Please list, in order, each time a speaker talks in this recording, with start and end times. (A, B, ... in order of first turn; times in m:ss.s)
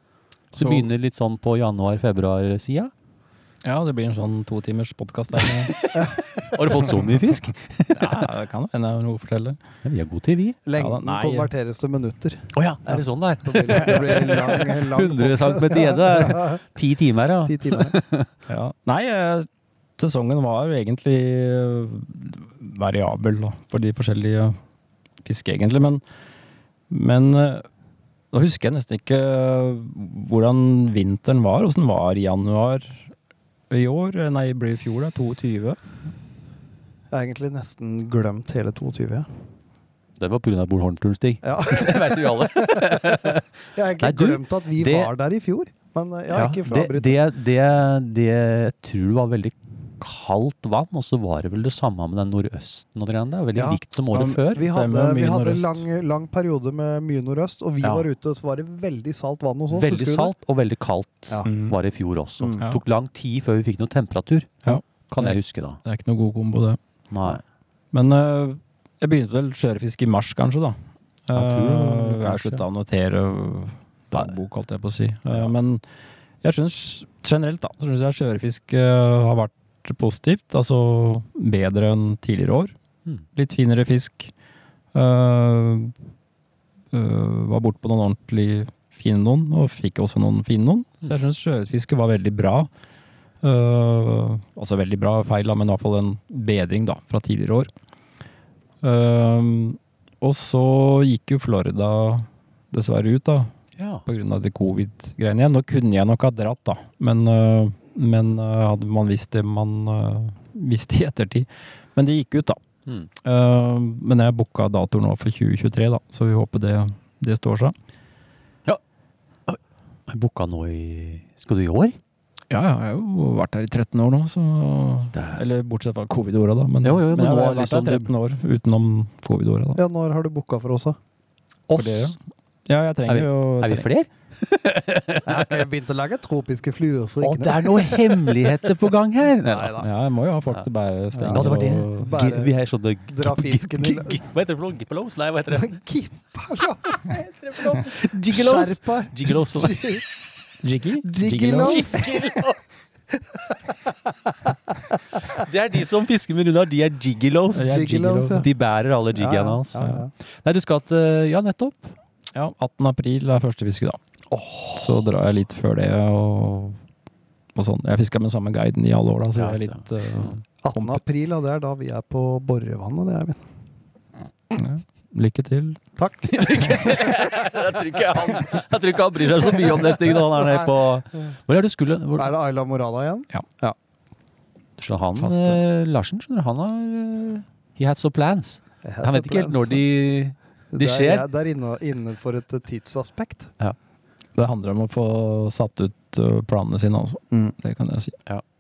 0:00.5-0:00.9 A
0:00.5-0:02.9 B
0:03.6-0:05.7 A
0:05.7-0:08.3 B
0:07.9-0:09.6 A
0:09.8-0:10.6 B
0:10.7-0:16.6 C
0:10.8-0:11.5 A
0:12.5-0:18.3 B
0:17.5-0:17.9 C
0:18.5-0:24.6 A
0:25.2-0:26.0 A
0:26.9-0:27.7 A
0:28.3-0:33.1 A
0:33.7-0:35.8 A
0:37.1-0:39.3 C
0:40.2-0:43.4 B
0:41.4-0:47.2 C
0:44.0-0:45.1 B
0:46.3-0:54.6 B
0:54.1-0:55.9 A
0:54.5-1:00.3 C
0:57.8-0:58.1 B
0:59.7-1:05.8 B
1:01.4-1:01.8 A
1:04.7-1:06.8 A
1:07.1-1:07.4 B
1:07.9-1:15.8 A
1:11.3-1:12.6 B
1:16.4-1:22.7 A
1:23.3-1:24.3 A
1:24.9-1:25.9 A
1:26.9-1:32.7 A
1:33.4-1:37.7 A
1:38.8-1:43.5 A
1:43.8-1:44.0 B
1:44.1-1:52.6 A
1:53.2-1:57.8 A
1:59.5-2:02.0 B
2:02.5-2:09.8 A
2:05.2-2:05.4 B
2:06.8-2:08.1 B
2:09.8-2:11.0 C
2:11.7-2:12.2 B
2:11.8-2:13.9 A
2:13.1-2:15.5 B
2:15.2-2:18.7 C
2:17.2-2:19.8 B
2:19.4-2:19.9 C
2:19.8-2:22.2 A
2:21.2-2:21.5 C
2:21.3-2:25.8 B
2:22.0-2:22.6 C
2:23.1-2:24.2 C
2:25.5-2:27.2 C
2:26.8-2:29.9 B
2:28.2-2:30.0 C
2:30.6-2:32.0 A
2:31.0-2:32.3 C
2:31.6-2:32.7 B
2:35.3-2:42.0 B
2:37.5-2:38.4 A
2:37.6-2:38.5 C
2:39.2-2:40.1 C
2:39.8-2:40.0 A
2:42.3-2:44.0 A
2:44.3-2:44.9 B
2:44.8-2:46.8 A
2:47.6-2:51.0 A
2:49.4-2:50.4 B
2:50.6-2:53.4 C
2:54.5-2:55.8 A
2:56.0-2:57.2 C
2:56.2-3:02.3 B
3:02.2-3:03.8 C
3:04.8-3:11.3 B
3:05.2-3:05.6 A
3:08.8-3:09.8 C
3:10.7-3:13.5 C
3:14.4-3:18.2 A